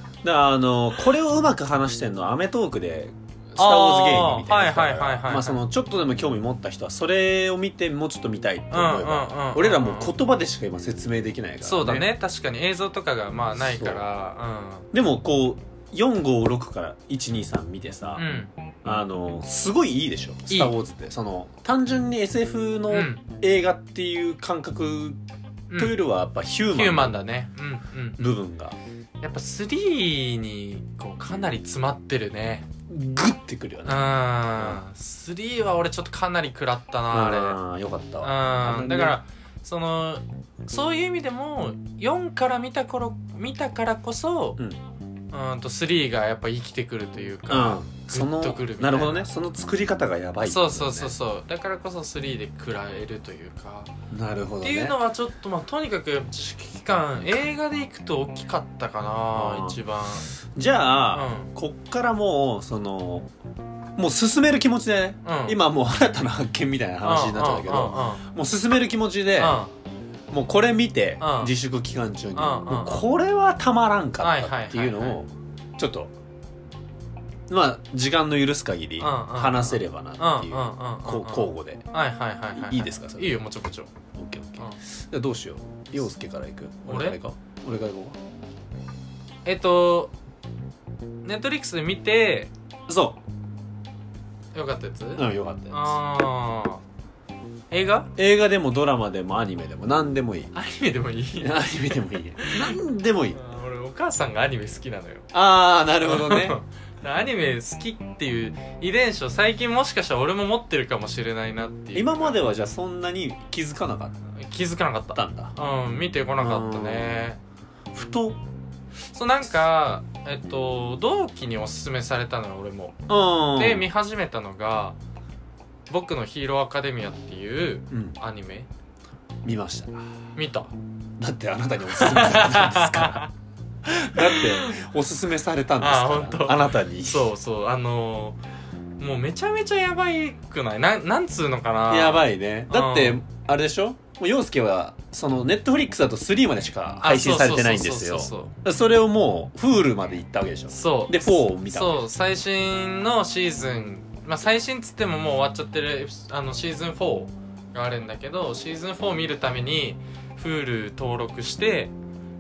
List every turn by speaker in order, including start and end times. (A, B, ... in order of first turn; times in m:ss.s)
0:00.2-0:12.1 A
0:03.6-0:05.6 B
0:08.7-0:10.2 B
0:11.6-0:14.9 B
0:13.6-0:14.0 A
0:14.9-0:18.3 A
0:18.2-0:18.5 B
0:18.8-0:25.2 A
0:22.9-0:23.2 B
0:25.8-0:27.2 A
0:26.7-0:28.3 B
0:28.2-0:28.8 A
0:29.2-0:32.7 B
0:32.9-0:34.8 A
0:33.9-0:37.6 B
0:37.1-0:39.2 A
0:38.2-0:44.6 B
0:45.3-0:49.3 B
0:47.5-0:51.2 A
0:50.4-0:53.9 B
0:54.1-0:55.0 A
0:54.6-1:00.4 B
0:59.3-0:59.8 A
1:00.5-1:03.3 A
1:01.1-1:01.5 B
1:04.0-1:09.6 A
1:05.2-1:05.6 B
1:07.0-1:08.2 B
1:09.4-1:09.7 B
1:10.3-1:16.1 A
1:11.2-1:11.5 B
1:12.4-1:13.0 B
1:14.2-1:15.2 B
1:17.5-1:21.8 A
1:19.0-1:23.9 B
1:22.6-1:23.4 A
1:24.1-1:28.2 A
1:26.9-1:27.2 B
1:29.4-1:30.1 B
1:31.2-1:32.5 B
1:32.9-1:33.2 A
1:34.5-1:36.8 B
1:35.2-1:36.0 A
1:37.7-1:38.1 B
1:38.2-1:40.5 A
1:40.5-1:42.8 B
1:41.4-1:43.4 A
1:43.4-1:45.3 B
1:45.3-1:46.6 A
1:46.0-1:52.4 B
1:51.9-1:54.2 A
1:54.4-1:57.4 B
1:55.1-1:55.6 A
1:56.4-1:57.2 A
1:57.9-1:58.4 A
1:59.1-2:03.0 B
2:03.1-2:03.9 A
2:03.6-2:05.0 B
2:05.9-2:08.7 B
2:07.9-2:08.2 A
2:09.4-2:10.1 A
2:10.4-2:10.7 B
2:11.2-2:13.2 A
2:11.9-2:13.3 B
2:13.8-2:17.3 A
2:14.2-2:14.8 B
2:15.8-2:18.4 B
2:19.0-2:23.2 B
2:21.9-2:32.0 A
2:27.0-2:28.6 B
2:30.7-2:41.9 B